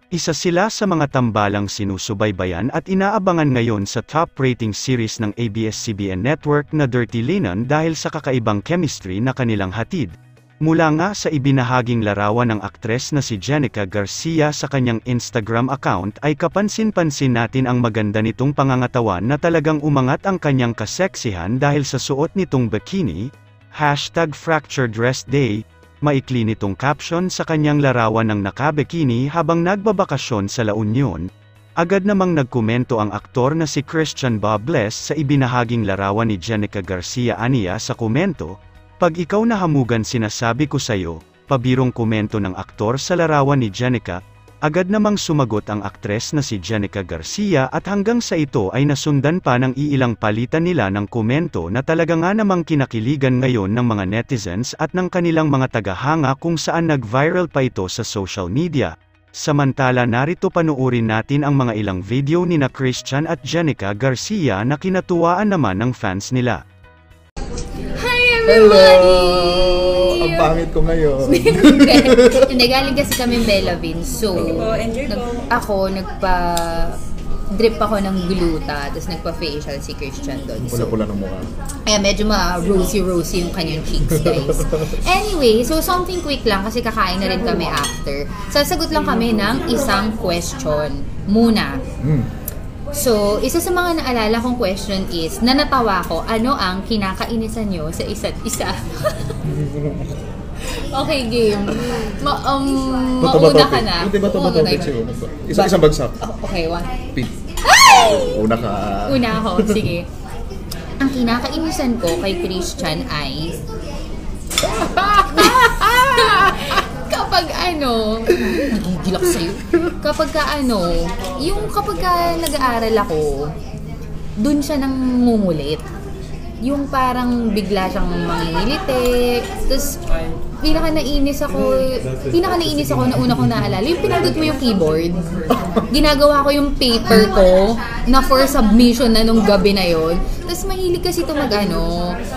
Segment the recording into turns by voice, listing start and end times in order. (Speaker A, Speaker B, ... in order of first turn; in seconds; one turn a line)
Speaker A: 0.1-10.1
Speaker A: 10.6-23.2
Speaker A: 23.8-31.2
Speaker A: 31.8-66.6
Speaker B: 68.0-70.5
Speaker C: 68.5-72.5
Speaker B: 71.3-77.0
Speaker B: 77.5-80.9
Speaker C: 80.6-81.5
Speaker B: 81.8-91.8
Speaker C: 92.0-92.3
Speaker B: 92.9-99.3
Speaker C: 99.4-100.2
Speaker B: 100.7-104.9
Speaker C: 103.2-106.2
Speaker B: 105.5-106.9
Speaker B: 107.7-108.4
Speaker C: 107.9-109.7
Speaker B: 109.0-110.1
Speaker B: 111.0-113.6
Speaker B: 114.8-123.5
Speaker B: 124.4-125.8
Speaker B: 126.6-129.9
Speaker B: 130.6-135.3
Speaker B: 135.8-142.2